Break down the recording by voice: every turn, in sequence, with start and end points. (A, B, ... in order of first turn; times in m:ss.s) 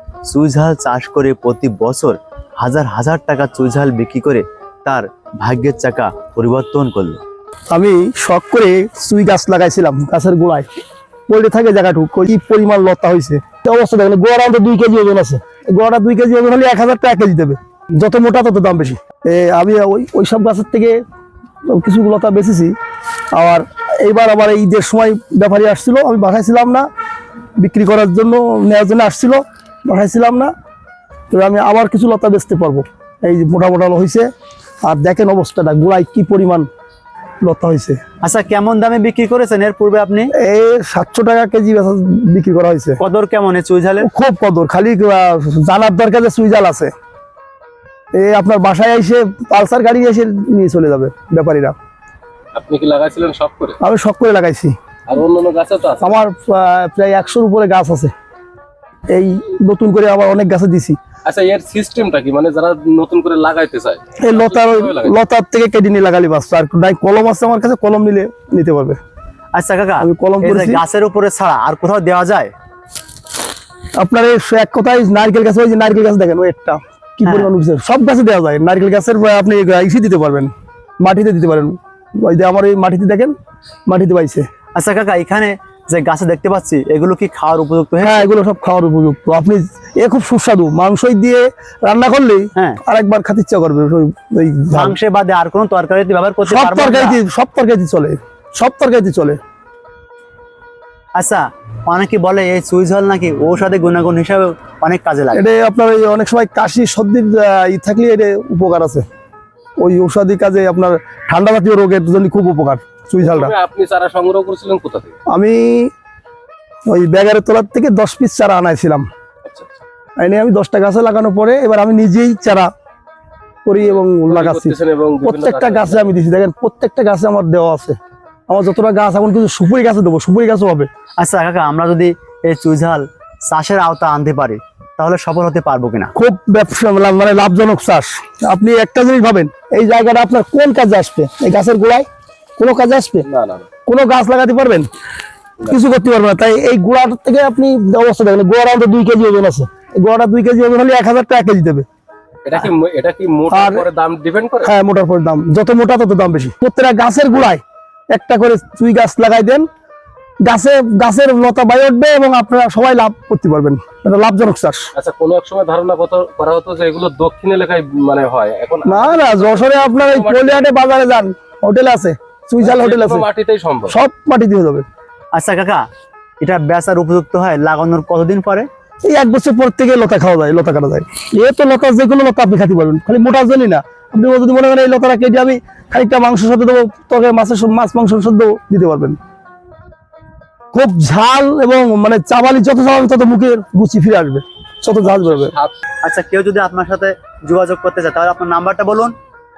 0:00.3-0:07.2 A
0:07.7-0:10.7 B
0:11.3-0:21.0 B
0:21.6-0:22.7 B
0:23.3-0:26.9 B
0:27.6-0:30.5 B
0:31.3-0:34.3 B
0:34.8-0:36.7 B
0:37.4-0:38.0 B
0:38.2-0:40.3 A
0:40.3-0:43.0 B
0:43.0-0:44.1 A
0:44.0-0:46.9 B
0:48.1-0:51.7 B
0:52.5-0:53.8 C
0:53.8-0:54.7 B
0:55.1-0:56.2 C
0:56.0-0:58.1 B
0:59.1-1:01.0 B
1:01.2-1:05.2 C
1:04.2-1:09.0 B
1:09.5-1:12.5 A
1:10.0-1:10.8 B
1:14.0-1:23.3 B
1:17.2-1:17.5 A
1:23.9-1:24.4 B
1:24.8-1:28.3 A
1:28.0-1:35.0 B
1:34.7-1:37.2 A
1:36.4-1:39.4 B
1:41.2-1:45.4 A
1:45.3-1:49.0 B
1:49.8-1:53.5 B
1:53.2-1:55.2 C
1:55.3-1:55.9 B
1:56.9-1:59.0 B
1:59.4-1:59.8 C
2:00.2-2:02.7 B
2:03.6-2:08.0 B
2:03.8-2:06.2 C
2:08.5-2:10.9 B
2:11.2-2:16.1 A
2:16.1-2:22.0 B
2:22.6-2:23.2 B
2:23.2-2:23.7 C
2:23.8-2:24.9 B
2:25.7-2:31.8 B
2:32.4-2:34.7 C
2:33.5-2:33.8 B
2:34.6-2:39.7 B
2:40.4-2:44.9 B
2:44.9-2:50.7 C
2:48.8-2:53.2 B
2:52.6-2:54.0 C
2:53.9-2:54.8 B
2:55.3-2:55.8 A
2:56.4-2:58.7 A
2:59.0-3:09.2 B
3:10.7-3:15.5 B
3:14.9-3:15.8 C
3:16.0-3:19.1 A